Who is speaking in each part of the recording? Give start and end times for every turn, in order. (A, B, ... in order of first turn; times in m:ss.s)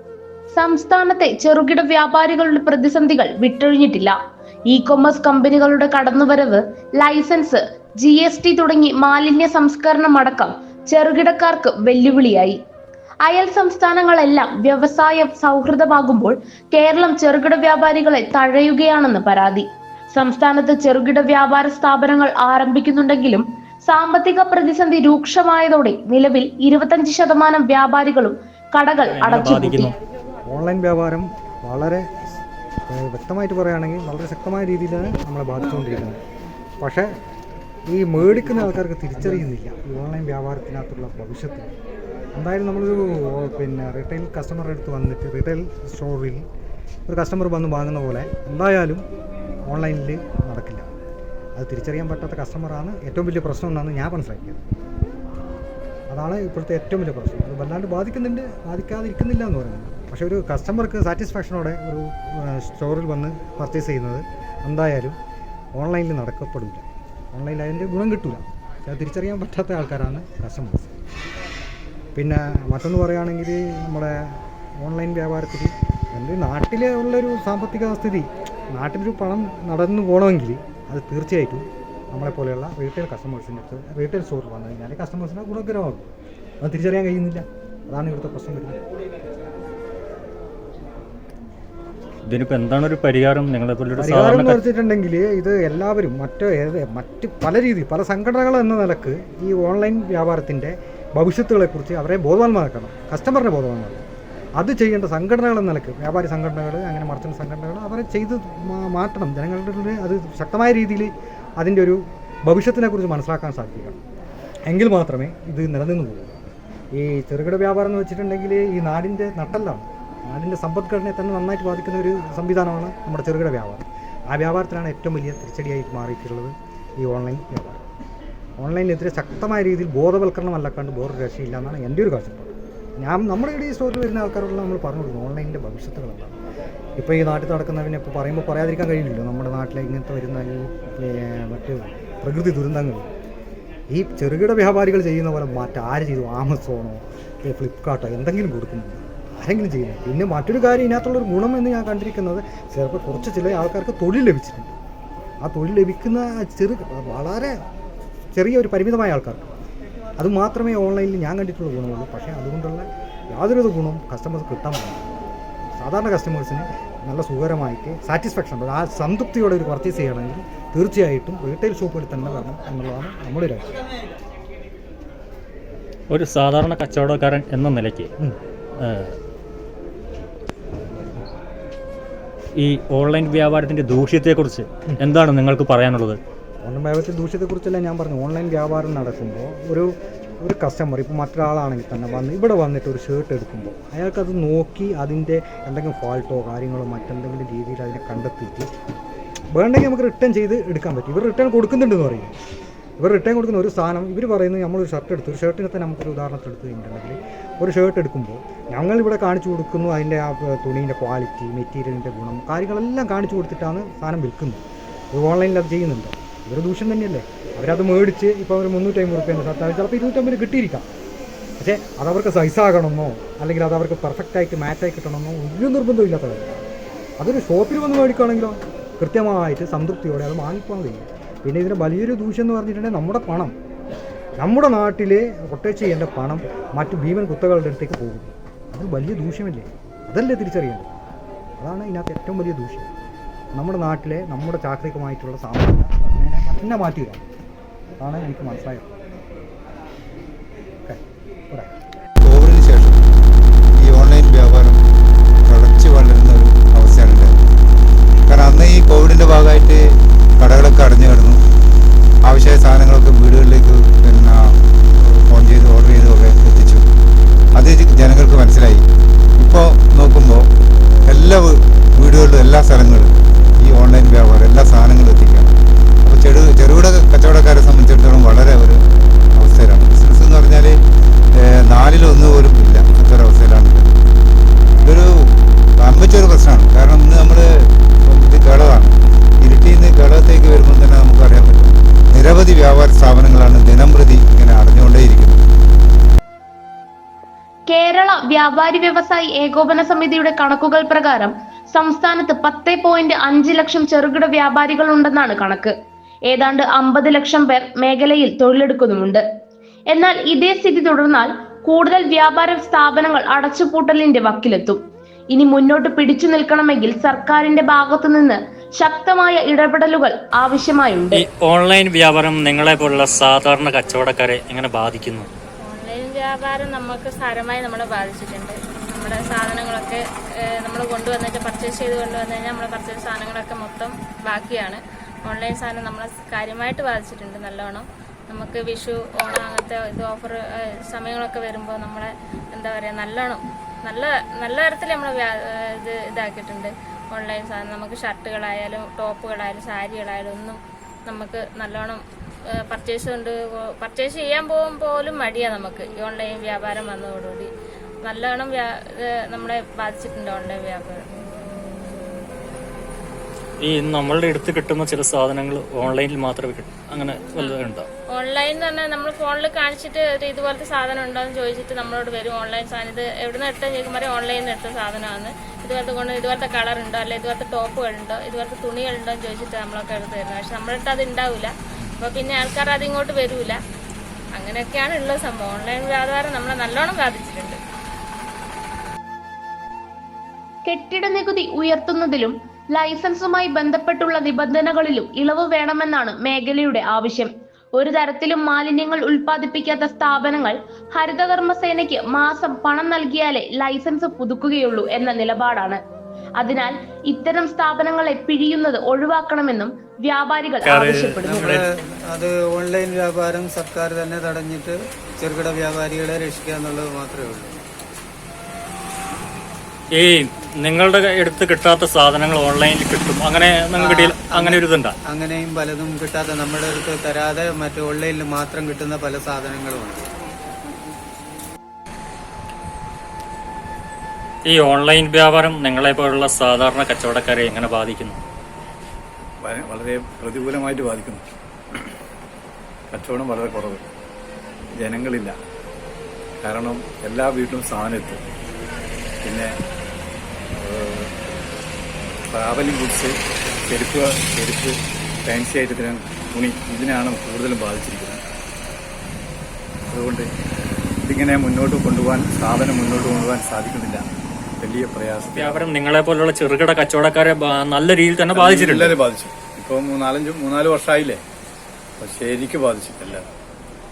0:00.5-0:04.2 A
0:04.7-0:12.6 A
0:13.2-0:29.9 A
0:29.0-0:29.9 B
0:30.5-0:32.1 C
0:32.9-0:36.2 C
0:36.8-0:37.1 C
0:37.9-0:41.7 C
0:42.4-0:46.4 C
0:47.1-0:49.0 C
0:49.7-0:50.9 C
0:51.6-0:54.7 C
0:56.1-1:05.2 C
1:05.8-1:11.0 C
1:12.2-1:26.1 C
1:26.6-1:28.8 C
1:32.3-1:34.6 B
1:34.0-1:44.0 C
1:44.6-1:54.0 C
1:54.7-1:56.4 C
1:56.9-2:07.8 C
2:08.6-2:16.4 C
2:17.0-2:23.1 C
2:23.9-2:34.8 C
2:35.4-2:37.6 C
2:38.4-2:39.5 C
2:40.2-2:45.1 C
2:45.8-2:53.8 C
2:56.1-2:58.1 B
2:58.8-2:59.2 B
3:02.6-3:06.2 B
3:06.6-3:18.7 C
3:19.6-3:22.4 C
3:23.0-3:34.6 C
3:35.1-3:40.9 C
3:41.6-3:46.6 C
3:47.2-3:53.6 C
3:54.4-4:00.9 C
4:01.6-4:02.9 C
4:03.5-4:07.3 C
4:08.0-4:08.9 C
4:10.9-4:11.8 C
4:12.2-4:13.0 D
4:13.7-4:14.8 D
4:15.5-4:17.4 D
4:18.3-4:21.4 D
4:22.2-4:24.6 D
4:25.1-4:26.8 D
4:27.6-4:28.8 D
4:29.4-4:30.5 D
4:31.1-4:38.8 D
4:39.4-4:40.8 D
4:41.3-4:43.9 D
4:44.8-4:47.5 D
4:48.0-4:55.4 D
4:57.7-5:05.7 A
5:06.3-5:09.2 A
5:09.9-5:14.8 A
5:15.3-5:21.2 A
5:21.1-5:25.3 B
5:25.6-5:30.0 E
5:30.6-5:52.0 E
5:52.6-5:57.5 E
5:58.0-6:01.0 E
6:03.6-6:07.9 B
6:08.1-6:23.6 E
6:24.4-6:27.6 E
6:30.6-6:45.8 A
6:46.4-6:51.4 A
6:50.7-6:51.6 B
6:51.3-6:51.6 F
6:52.1-6:57.6 F
7:00.0-7:04.9 B
7:03.8-7:04.6 F
7:05.1-7:10.0 F
7:14.4-7:18.2 B
7:19.4-7:21.2 G
7:22.9-7:23.9 G
7:24.8-7:25.4 G
7:26.4-7:28.2 G
7:29.2-7:29.5 G
7:30.6-7:31.1 G
7:32.3-7:33.2 G
7:33.7-7:38.2 G
7:39.9-7:40.3 G
7:41.0-7:44.1 G
7:44.6-7:45.6 G
7:45.3-7:49.0 B
7:48.3-7:51.2 G
7:52.0-7:53.3 G